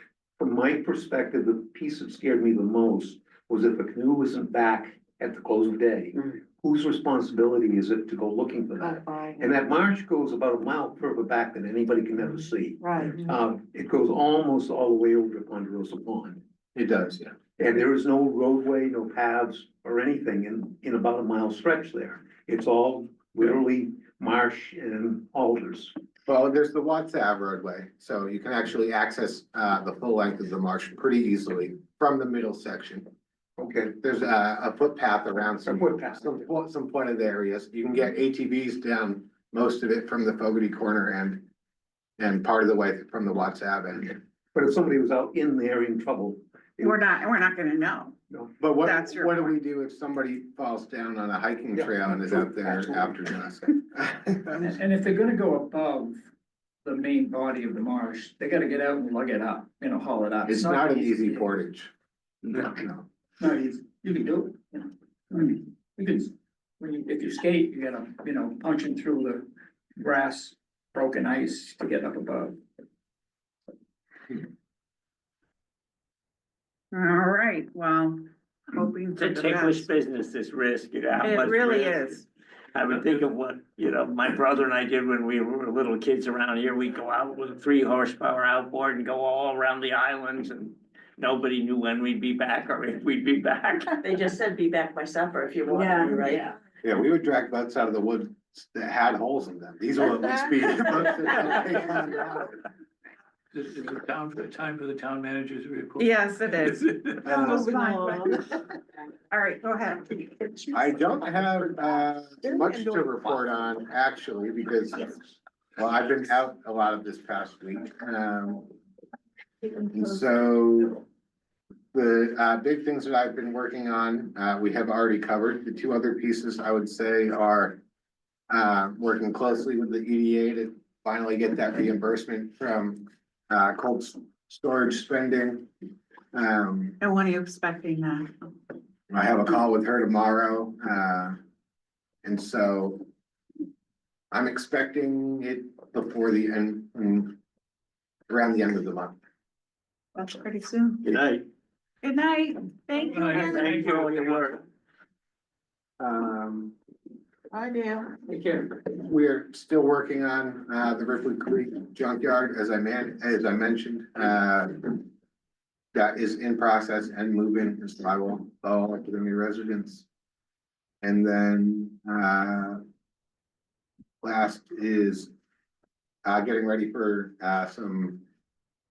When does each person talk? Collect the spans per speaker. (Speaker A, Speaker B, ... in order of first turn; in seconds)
Speaker A: 0.4-16.4, 17.6-25.9, 33.6-34.0, 35.6-36.4, 44.5-47.1, 48.3-48.7, 51.7-53.3
Speaker B: 8.8-9.6, 12.9-13.4, 95.7-96.4, 107.2-108.4, 157.5-158.3
Speaker C: 16.7-17.4, 26.2-33.1, 34.0-41.5, 42.2-44.2, 48.6-54.8, 60.5-61.9, 62.8-63.0, 96.8-102.6, 107.2-107.7, 110.7-115.2, 115.8-118.7, 119.9-121.0, 121.9-127.8, 128.5-135.7, 136.3-137.0, 139.1-141.3, 142.2-143.1, 144.3-147.4, 148.3-149.2, 156.0-156.7, 158.8-165.1, 165.9-170.1, 171.0-172.8, 174.2-175.3, 176.2-178.2
Speaker D: 46.8-48.1, 48.8-49.5, 76.9-79.8, 81.2-82.2, 106.0-108.2, 109.3-111.0, 137.0-138.4, 150.1-151.0, 152.0-153.6
Speaker E: 54.6-56.2, 56.8-61.5, 63.4-72.6
Speaker F: 62.4-62.8, 79.2-82.2, 82.7-93.9, 151.0-151.4, 153.0-154.6
Speaker G: 82.9-83.2, 103.5-108.3, 153.1-154.5
Speaker H: 94.0-96.5